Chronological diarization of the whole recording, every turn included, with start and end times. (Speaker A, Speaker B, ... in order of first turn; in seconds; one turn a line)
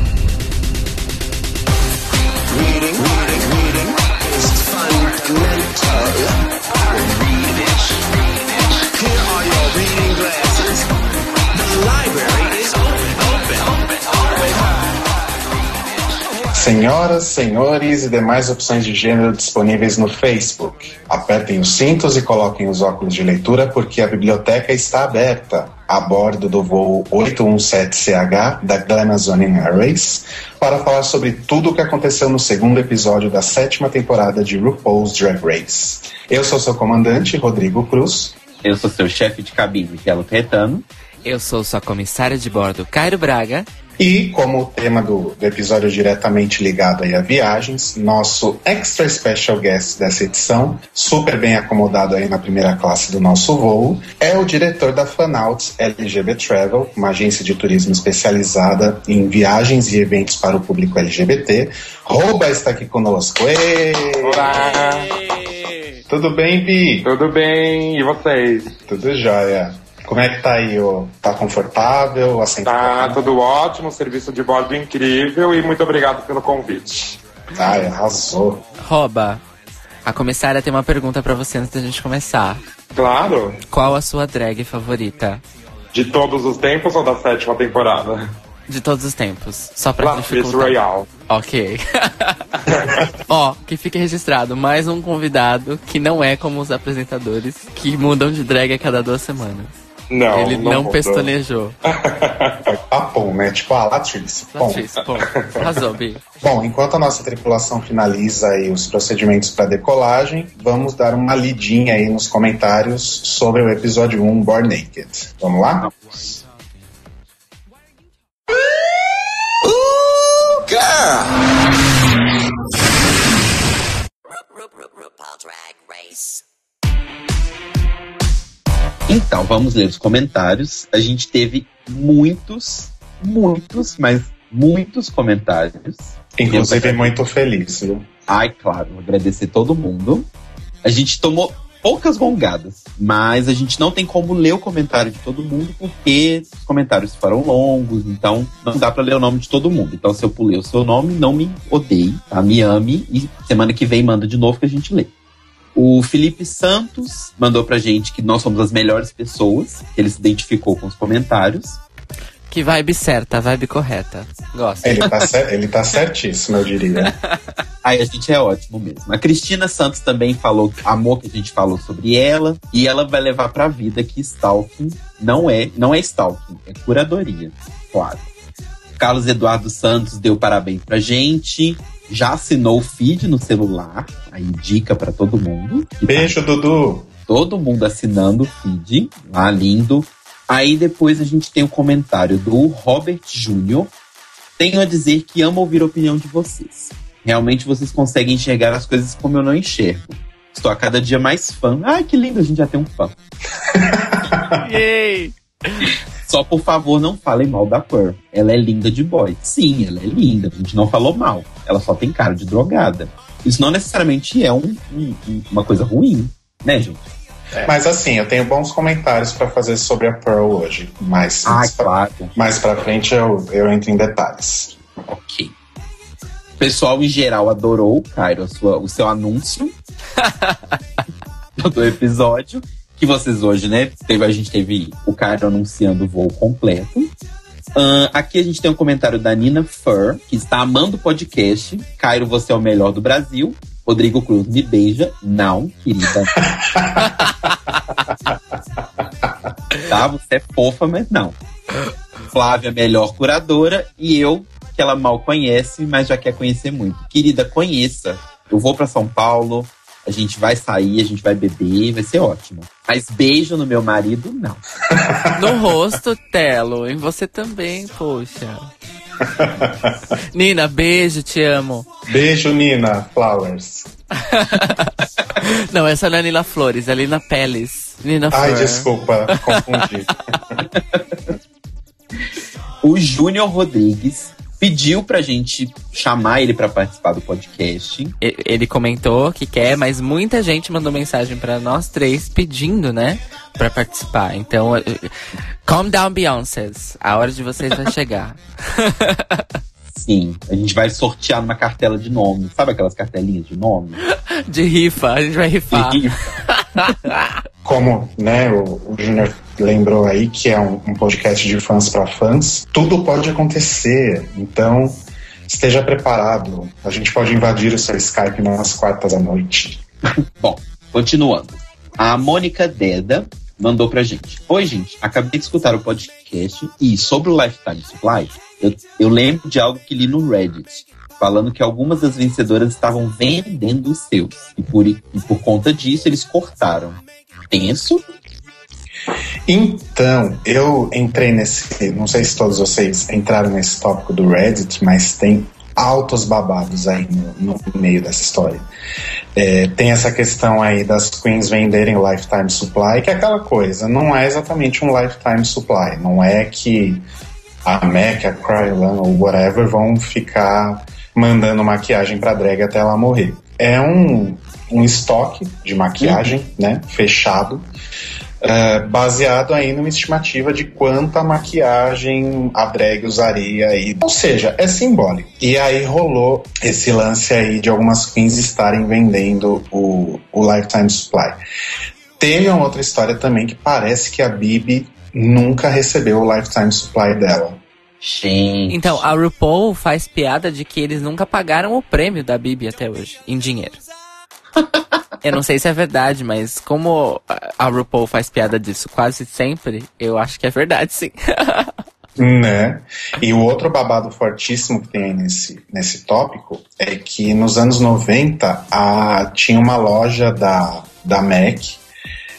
Speaker A: 2.5-8.0
Speaker A: 8.8-10.8
Speaker A: 11.5-14.7
Speaker B: 16.5-38.4
Speaker C: 38.6-40.9
Speaker D: 41.2-43.7
Speaker B: 44.0-64.7
Speaker E: 64.2-65.2
Speaker B: 66.1-67.1
Speaker E: 67.0-68.7
Speaker B: 68.8-73.3
Speaker E: 72.6-77.2
Speaker B: 77.5-78.6
Speaker D: 78.8-79.4
Speaker D: 80.0-82.6
Speaker E: 83.0-83.6
Speaker D: 83.7-85.4
Speaker E: 85.9-88.3
Speaker D: 88.7-90.8
Speaker E: 90.0-91.1
Speaker D: 91.3-92.4
Speaker E: 92.7-93.1
Speaker D: 93.3-99.8
Speaker E: 100.1-101.3
Speaker D: 100.3-101.8
Speaker E: 101.9-102.7
Speaker B: 102.7-104.9
Speaker D: 104.5-106.2
Speaker B: 106.4-116.4
Speaker A: 119.6-121.3
Speaker C: 129.1-137.1
Speaker B: 136.4-138.1
Speaker C: 138.3-140.3
Speaker C: 140.8-155.1
Speaker C: 155.7-161.8
Speaker D: 162.5-165.1
Speaker B: 164.8-167.2
Speaker C: 167.8-178.3
Speaker C: 179.0-186.4
Speaker B: 186.1-187.1
Speaker C: 187.3-193.9
Speaker C: 194.6-203.2
Speaker B: 203.7-204.5
Speaker D: 204.5-205.9
Speaker C: 205.8-217.7
Speaker B: 217.6-224.8
Speaker C: 221.4-222.3
Speaker C: 225.1-225.5
Speaker C: 226.6-229.7
Speaker D: 230.2-230.6
Speaker C: 231.6-237.1
Speaker C: 237.7-246.3
Speaker B: 246.5-247.3
Speaker C: 249.8-251.4
Speaker C: 252.3-264.6
Speaker B: 264.9-265.6
Speaker D: 265.3-268.7
Speaker B: 269.3-269.9
Speaker D: 270.3-271.9
Speaker B: 272.1-273.9
Speaker D: 274.2-278.9
Speaker B: 278.3-280.6
Speaker C: 280.7-281.0
Speaker C: 282.8-288.1
Speaker D: 288.2-299.4
Speaker C: 299.9-304.0
Speaker D: 304.1-307.3
Speaker C: 305.7-306.4
Speaker B: 307.6-319.8
Speaker C: 320.4-338.0
Speaker B: 339.5-348.6
Speaker B: 349.3-357.0
Speaker B: 357.6-367.6
Speaker C: 366.0-366.4
Speaker B: 368.4-381.4
Speaker B: 382.2-387.6
Speaker C: 388.0-389.0
Speaker D: 388.7-393.8
Speaker D: 395.2-401.7
Speaker B: 402.2-411.8